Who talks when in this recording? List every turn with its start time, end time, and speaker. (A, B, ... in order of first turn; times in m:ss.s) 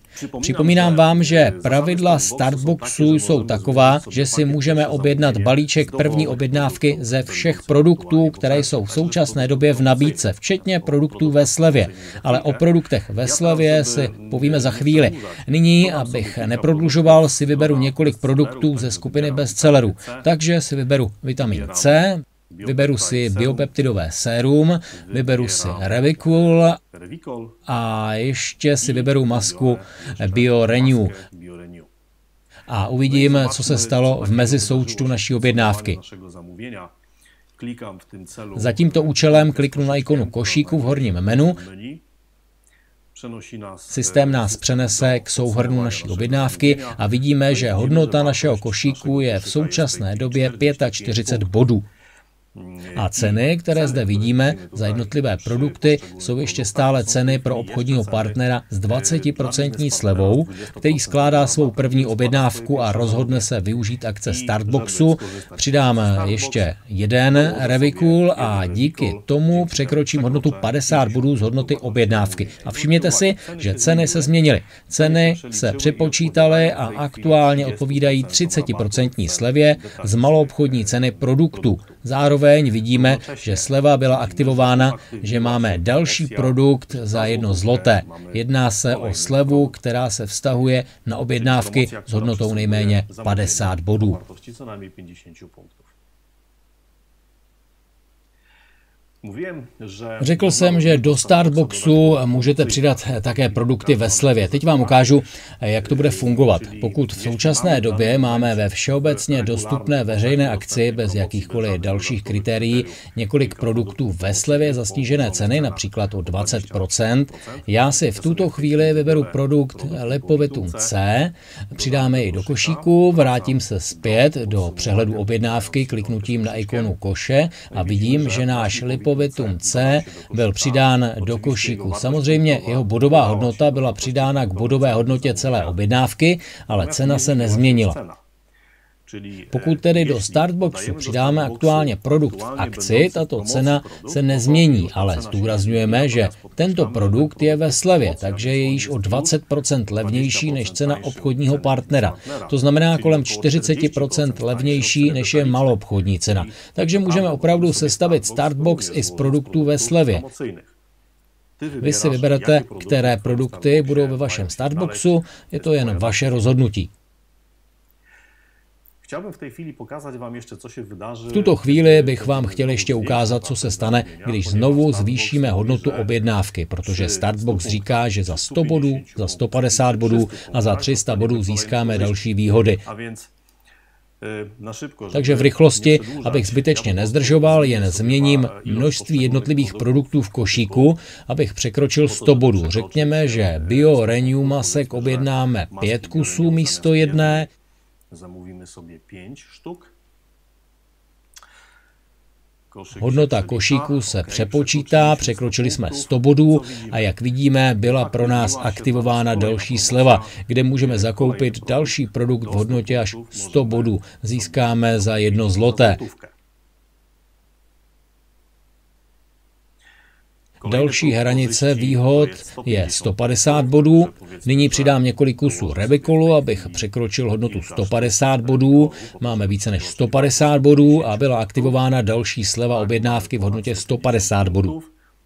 0:00.2-0:10.3 A
0:00.4-0:26.8 B
0:10.8-0:12.7 A
0:13.2-0:20.2 A
0:21.4-0:21.9 A
0:22.5-0:23.7 A
0:25.1-0:26.3 A
0:26.9-0:27.6 A
0:27.7-0:31.2 B
0:28.8-0:31.9 A
0:32.7-0:36.0 B
0:33.1-0:36.9 A
0:37.6-0:42.0 A
0:38.6-0:41.6 B
0:43.1-0:51.5 A
0:43.9-0:51.9 B
0:52.6-1:03.5 A
0:52.9-1:34.2 B
1:04.3-1:06.7 A
1:07.4-1:14.4 A
1:15.0-1:22.0 A
1:22.9-1:29.8 A
1:31.4-1:35.9 A
1:39.2-1:45.2 A
1:40.2-2:18.0 B
1:45.8-2:00.9 A
2:01.7-2:06.9 A
2:07.7-2:15.8 A
2:16.7-2:18.2 A
2:19.1-2:29.4 A
2:19.5-2:40.3 B
2:30.0-2:35.8 A
2:36.3-2:40.7 A
2:41.6-2:46.4 A
2:41.8-2:46.9 B
2:49.0-2:56.3 A
2:51.3-3:02.8 B
2:56.8-3:03.3 A
3:04.2-3:10.9 A
3:05.1-3:17.5 B
3:12.1-3:17.5 A
3:18.1-3:19.9 A
3:22.7-3:27.0 A
3:23.0-3:36.0 B
3:27.9-3:36.3 A
3:40.6-3:46.9 A
3:40.6-3:54.8 B
3:47.4-3:51.8 A
3:52.7-3:54.9 A